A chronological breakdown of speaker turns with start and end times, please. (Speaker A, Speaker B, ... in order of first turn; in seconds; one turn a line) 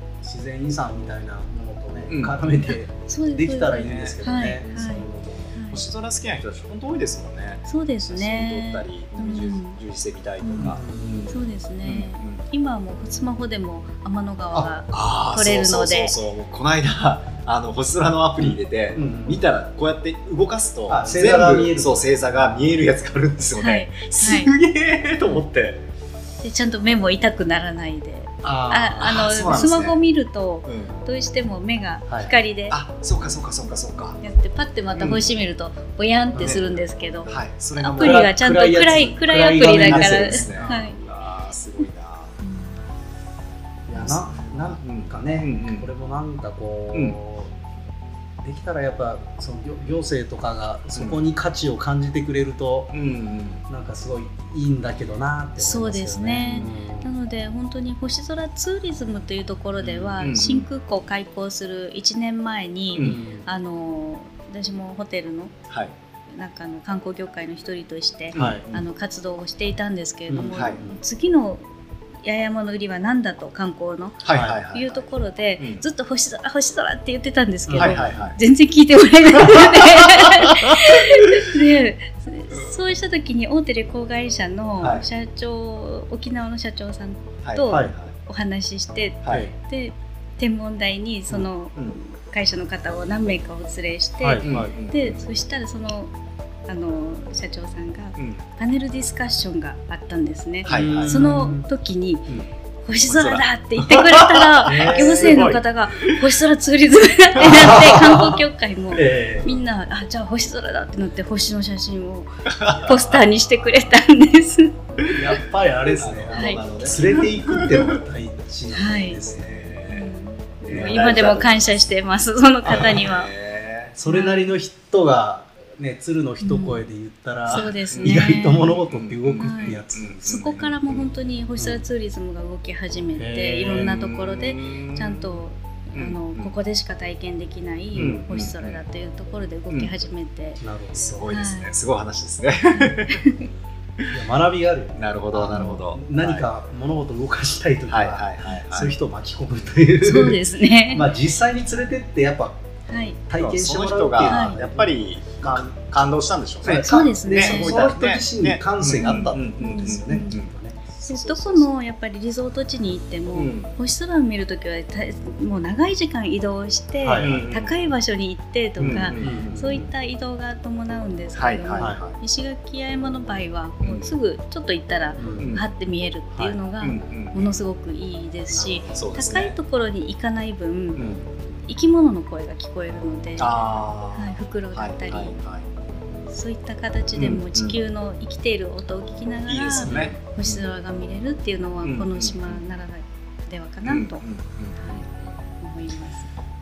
Speaker A: 0.2-5.5
Speaker B: 2.1-2.4
Speaker C: 2.6-5.8
Speaker B: 3.8-4.2
Speaker B: 5.7-12.4
Speaker C: 7.7-9.8
Speaker C: 10.4-16.2
Speaker A: 10.6-11.3
Speaker B: 14.9-25.9
Speaker A: 18.4-19.4
Speaker A: 20.9-22.8
Speaker C: 23.6-24.5
Speaker C: 26.4-32.8
Speaker A: 28.4-29.1
Speaker B: 28.9-30.0
Speaker B: 30.6-30.9
Speaker B: 32.7-34.2
Speaker C: 34.2-41.0
Speaker B: 34.9-35.3
Speaker A: 36.3-36.6
Speaker B: 36.4-38.3
Speaker A: 38.0-40.8
Speaker B: 39.8-42.4
Speaker C: 42.4-42.8
Speaker A: 43.9-47.5
Speaker B: 44.0-45.9
Speaker A: 48.4-52.9
Speaker B: 51.0-51.2
Speaker B: 52.9-53.6
Speaker A: 53.7-57.1
Speaker C: 55.6-65.5
Speaker B: 59.8-60.7
Speaker B: 63.0-63.2
Speaker A: 63.0-63.5
Speaker C: 66.3-71.6
Speaker A: 68.3-68.7
Speaker B: 68.3-68.8
Speaker A: 70.3-71.0
Speaker B: 70.5-70.8
Speaker C: 72.2-96.1
Speaker B: 74.2-75.8
Speaker A: 74.3-74.6
Speaker A: 77.7-78.2
Speaker B: 77.8-78.4
Speaker B: 79.4-81.5
Speaker B: 82.5-82.8
Speaker B: 84.8-85.1
Speaker B: 87.4-88.1
Speaker A: 87.7-88.0
Speaker B: 89.2-89.5
Speaker A: 89.3-89.5
Speaker A: 94.2-94.7
Speaker B: 94.4-95.2
Speaker C: 96.7-102.3
Speaker B: 100.7-101.5
Speaker A: 100.7-101.7
Speaker C: 102.8-115.1
Speaker B: 103.0-106.2
Speaker A: 104.7-105.5
Speaker A: 107.4-109.5
Speaker B: 112.5-113.3
Speaker A: 112.7-113.1
Speaker A: 115.1-119.7
Speaker B: 116.0-118.0
Speaker C: 116.3-116.7
Speaker C: 118.7-119.2
Speaker B: 119.3-120.2
Speaker C: 119.9-123.3
Speaker B: 120.7-121.8
Speaker A: 120.7-121.0
Speaker B: 122.7-124.0
Speaker A: 124.0-130.7
Speaker C: 124.1-124.6
Speaker C: 126.4-126.8
Speaker B: 127.5-128.2
Speaker C: 127.5-128.8
Speaker B: 128.8-131.1
Speaker C: 129.4-140.6
Speaker A: 131.6-131.8
Speaker A: 133.2-133.9
Speaker B: 133.7-135.4
Speaker B: 135.9-136.5
Speaker A: 137.9-138.3
Speaker B: 138.3-138.8
Speaker A: 140.6-141.3
Speaker B: 141.0-143.3
Speaker C: 141.3-141.8
Speaker C: 142.7-143.5
Speaker A: 144.1-152.6
Speaker B: 145.0-146.5
Speaker C: 145.6-145.8
Speaker B: 147.9-149.0
Speaker C: 150.0-151.1
Speaker C: 152.9-153.2
Speaker A: 153.3-155.7
Speaker B: 153.4-161.6
Speaker C: 154.2-154.6
Speaker A: 156.6-161.3
Speaker C: 156.7-157.9
Speaker C: 159.0-160.4
Speaker C: 161.1-181.1
Speaker B: 163.3-163.8
Speaker A: 167.0-167.7
Speaker B: 167.2-167.7
Speaker B: 168.8-169.9
Speaker A: 168.8-169.8
Speaker B: 171.4-172.2
Speaker B: 173.8-174.1
Speaker A: 175.2-175.6
Speaker B: 175.4-175.7
Speaker B: 176.8-177.5
Speaker A: 178.5-178.9
Speaker B: 178.9-179.6
Speaker B: 181.0-181.3
Speaker C: 181.7-185.4
Speaker B: 183.4-185.7
Speaker C: 186.3-194.2
Speaker B: 187.1-187.8
Speaker B: 189.5-190.7
Speaker A: 189.8-190.2
Speaker B: 191.8-192.6
Speaker B: 193.9-195.4
Speaker C: 194.8-195.1
Speaker C: 195.6-196.3